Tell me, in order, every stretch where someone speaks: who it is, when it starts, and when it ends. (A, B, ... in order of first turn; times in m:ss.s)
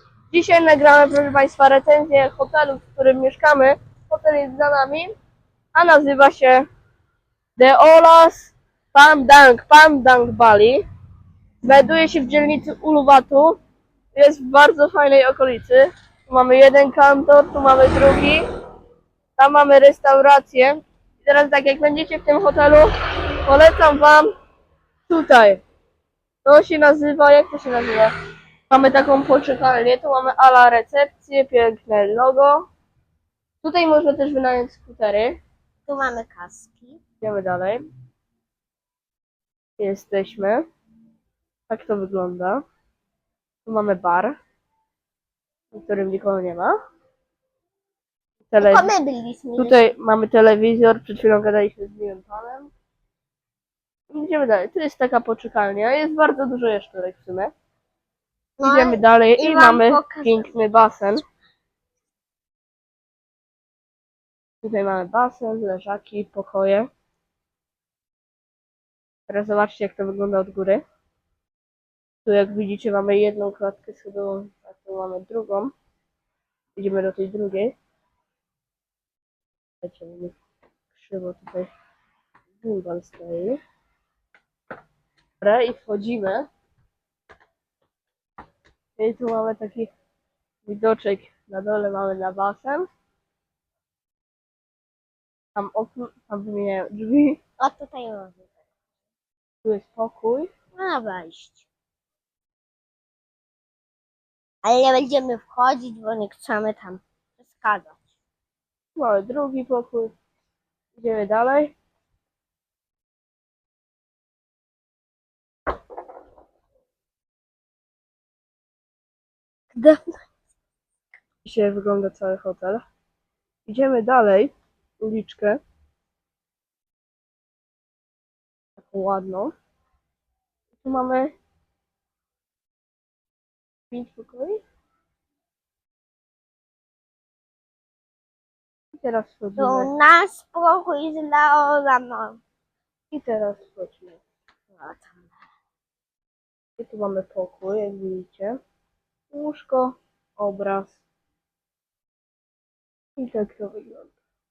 0:00.3-0:05.1 A
0:05.7-0:06.7 A
0:07.6-0:10.8 A
0:11.6-0:13.6 A
0:14.2-0:18.4 A
0:19.4-0:22.9 A
0:23.4-0:24.3 A
0:25.1-0:25.6 A
0:26.4-0:28.1 A
0:28.7-0:32.7 A
0:33.6-0:35.4 A
0:35.9-0:37.0 B
0:37.2-0:37.9 A
0:39.8-0:40.7 A
0:41.7-0:42.6 A
0:43.6-0:44.4 A
0:45.7-0:46.8 A
0:48.5-0:48.9 A
0:48.6-0:49.9 B
0:49.6-0:52.7 A
0:54.1-0:57.5 A
0:58.6-1:00.5 B
0:58.6-1:01.2 A
1:04.6-1:06.9 A
1:09.3-1:10.8 A
1:12.2-1:15.7 A
1:16.8-1:17.8 A
1:19.8-1:20.4 A
1:21.0-1:21.7 A
1:22.6-1:23.6 A
1:25.4-1:26.5 A
1:29.0-1:29.9 A
1:30.6-1:32.9 A
1:35.6-1:37.4 A
1:37.6-1:38.5 B
1:39.6-1:40.5 A
1:40.8-1:41.6 B
1:44.6-1:48.1 B
1:49.0-1:50.1 A
1:51.0-1:51.7 A
1:59.8-2:00.0 A
2:01.4-2:02.8 A
2:03.7-2:05.6 A
2:08.8-2:09.5 A
2:10.8-2:11.3 A
2:13.9-2:14.6 A
2:18.9-2:19.9 A
2:19.6-2:22.4 B
2:23.1-2:24.2 A
2:24.8-2:25.3 B
2:26.8-2:28.6 A
2:29.3-2:31.0 A
2:33.2-2:34.1 A